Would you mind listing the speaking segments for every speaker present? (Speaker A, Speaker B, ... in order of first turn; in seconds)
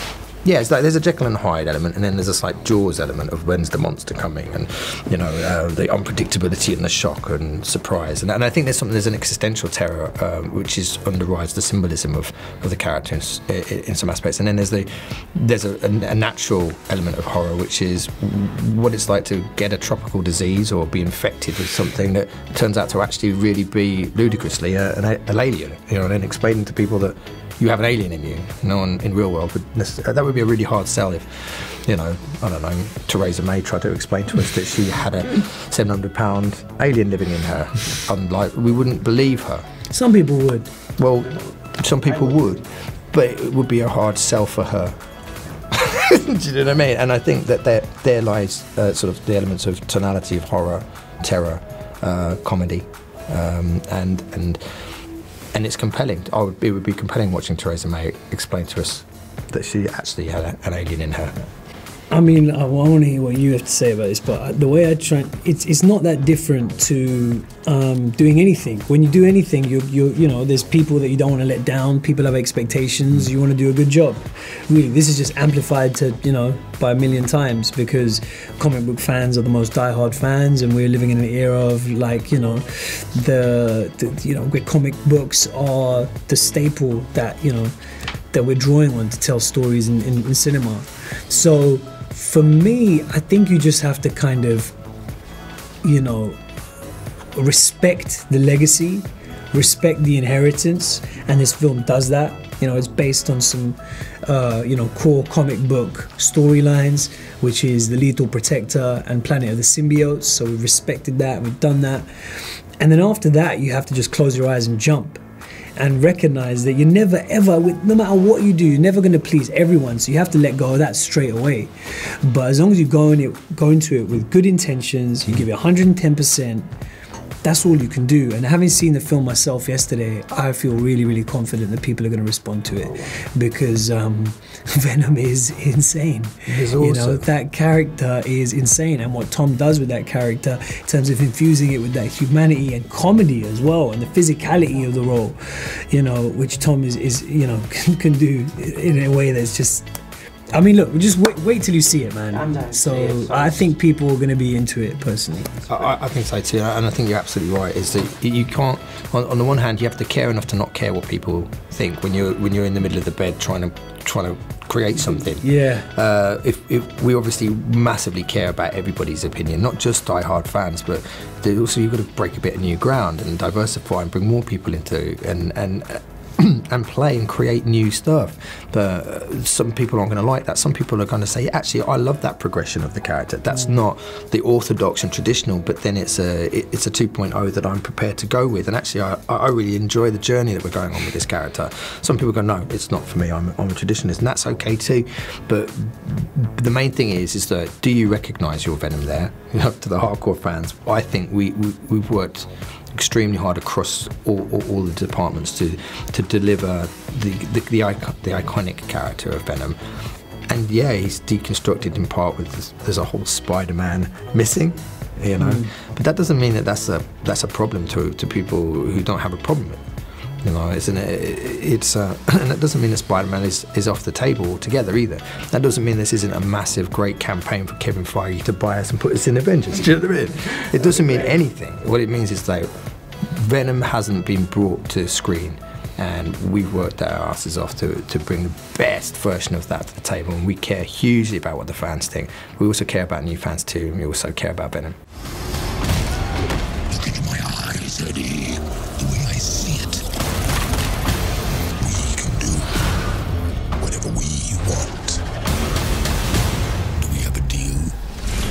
Speaker A: 0.4-39.6, 41.0-45.0, 45.7-54.6, 55.5-61.3, 136.5-137.2, 155.7-209.8, 210.5-219.8, 220.4-232.7, 233.2-245.0, 247.6-248.5, 249.4-249.9, 252.2-252.6, 253.8-255.1, 257.0-257.9
Speaker B: 39.9-40.7, 62.1-87.7, 88.3-94.7, 95.8-96.4, 97.3-112.1, 112.8-115.2, 115.8-126.7, 127.4-149.9, 150.5-155.7, 165.4-165.9, 215.4-215.7
Speaker C: 246.9-250.0, 251.8-252.4, 253.8-255.1, 257.0-257.7